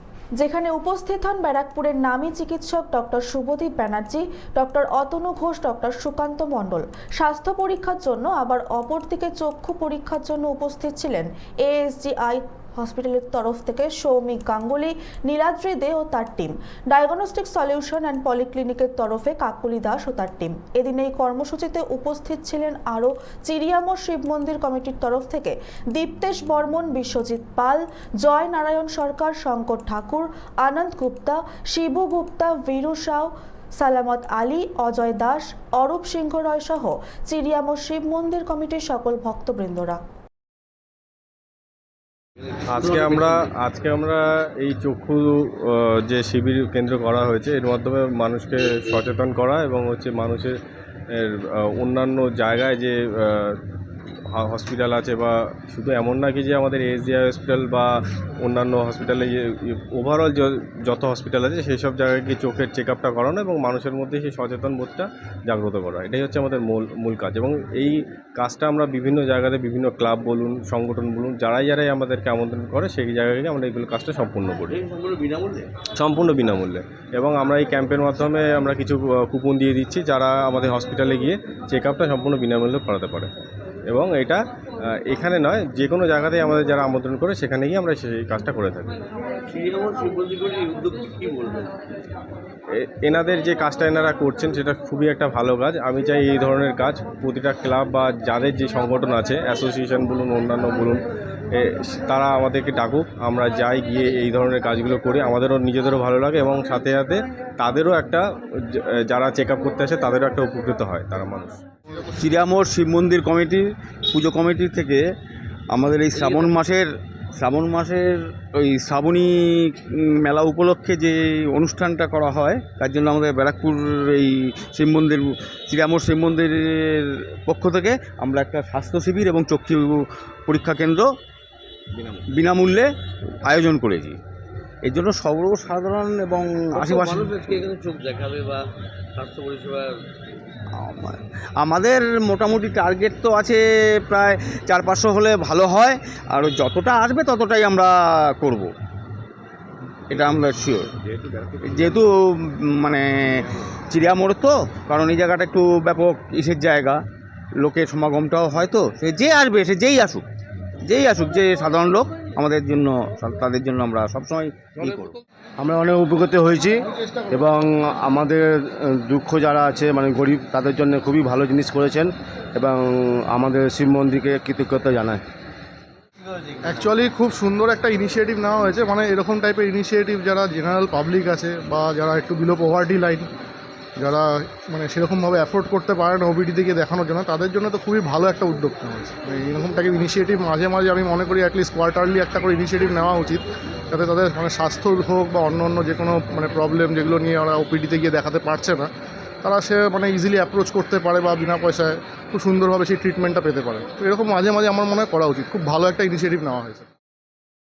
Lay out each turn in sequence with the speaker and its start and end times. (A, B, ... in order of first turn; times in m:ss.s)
0:00.4-0:40.0 A
0:42.7-0:50.5 B
0:43.0-0:43.4 C
0:51.1-0:53.6 B
0:54.3-0:57.9 B
0:58.4-1:14.8 B
1:14.7-1:15.7 C
1:16.0-1:23.3 B
1:23.9-1:24.4 B
1:25.0-1:28.9 B
1:29.5-1:31.7 C
1:32.7-1:51.6 B
1:52.1-1:55.0 D
1:55.7-2:11.1 D
1:56.1-1:56.5 C
2:12.3-2:14.2 D
2:14.8-2:17.4 D
2:16.7-2:18.6 C
2:19.2-2:20.0 C
2:20.8-2:28.7 D
2:30.1-2:30.9 D
2:31.6-2:37.0 D
2:37.6-2:40.3 D
2:40.8-2:45.2 D
2:45.6-2:55.2 E
2:56.6-3:03.3 F
3:04.0-3:18.9 F
3:19.4-3:26.9 F